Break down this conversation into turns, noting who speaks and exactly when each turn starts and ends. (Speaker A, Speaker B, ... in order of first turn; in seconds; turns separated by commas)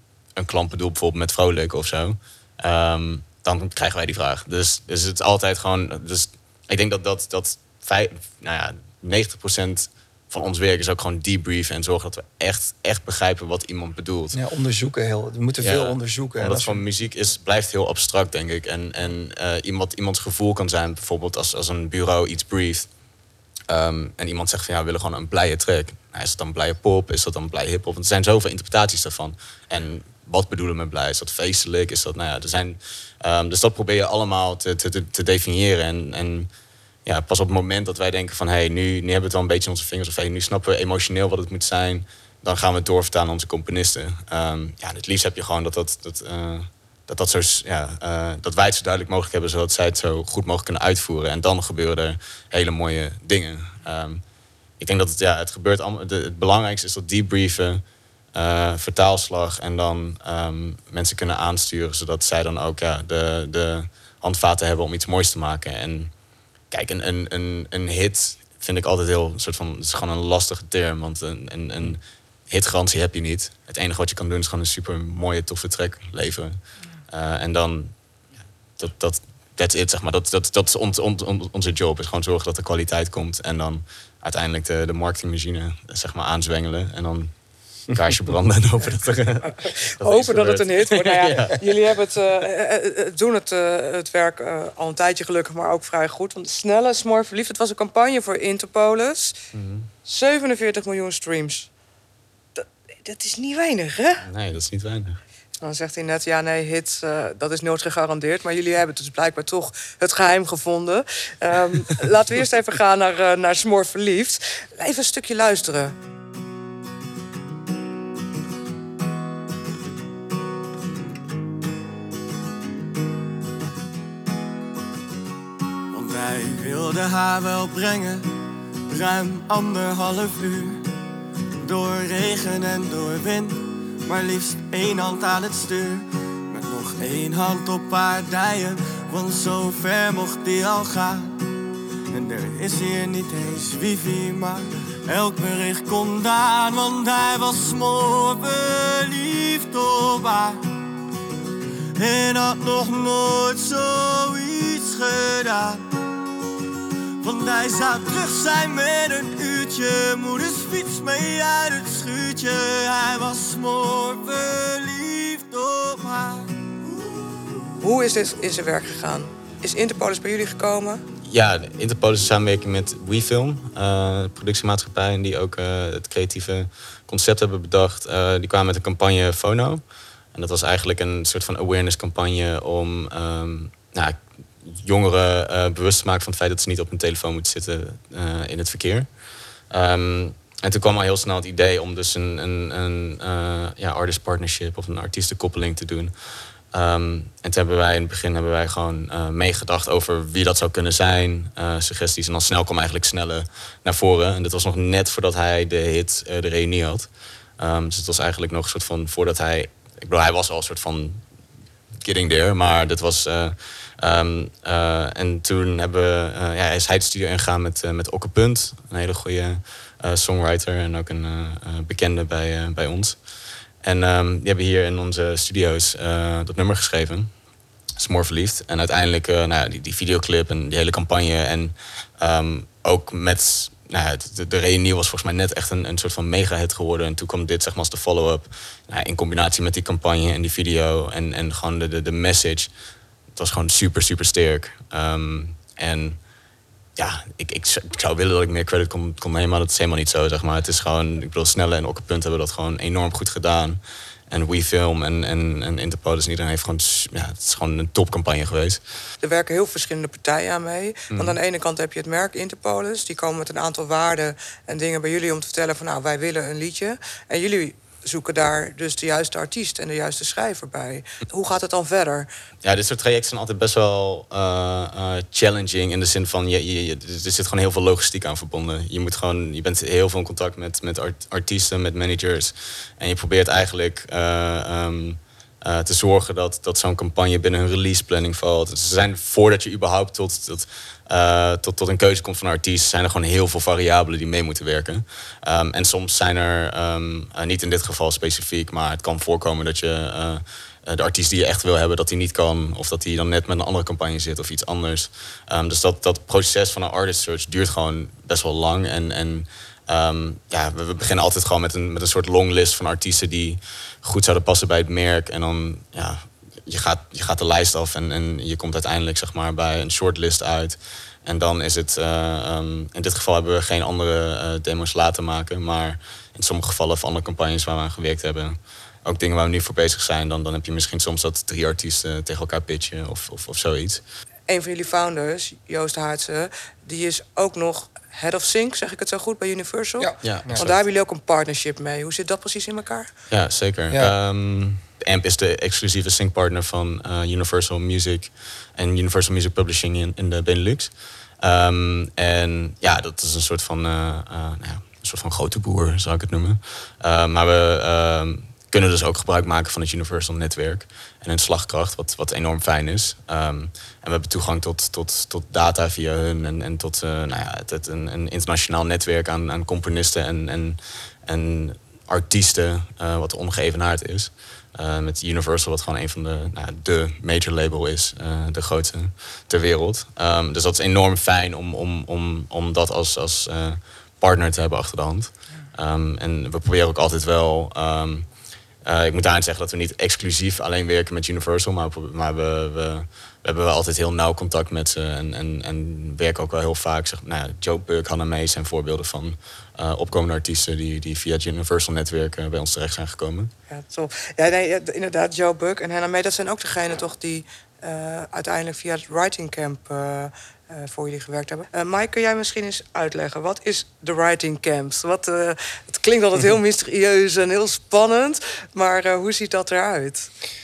Speaker A: 0.3-14.4, Speaker B: 14.3-16.8, Speaker A: 15.6-22.9, Speaker A: 23.7-36.5, Speaker A: 37.0-54.2, Speaker A: 54.8-57.8, Speaker A: 58.3-66.1, Speaker A: 66.7-77.9, Speaker A: 78.8-87.3, Speaker A: 87.9-91.8, Speaker C: 89.4-99.3, Speaker A: 99.5-99.9, Speaker C: 100.0-101.7, Speaker C: 102.6-104.2, Speaker A: 104.2-105.2, Speaker C: 105.6-115.9, Speaker D: 125.9-128.3, Speaker D: 128.9-130.8, Speaker D: 131.6-141.4, Speaker D: 142.1-150.7, Speaker D: 151.9-155.8, Speaker D: 157.2-166.7, Speaker C: 167.8-171.0, Speaker A: 171.3-179.8, Speaker A: 180.3-189.1, Speaker A: 189.7-196.1, Speaker A: 196.7-211.2, Speaker A: 212.0-223.2, Speaker A: 223.8-227.3, Speaker A: 227.9-242.7, Speaker A: 243.3-246.2, Speaker A: 247.0-258.8, Speaker C: 259.2-272.3, Speaker A: 261.1-261.4, Speaker A: 272.6-334.0, Speaker C: 334.5-343.1, Speaker B: 340.0-340.6, Speaker A: 340.2-340.8, Speaker A: 343.3-388.3, Speaker A: 388.8-403.5, Speaker C: 403.7-420.3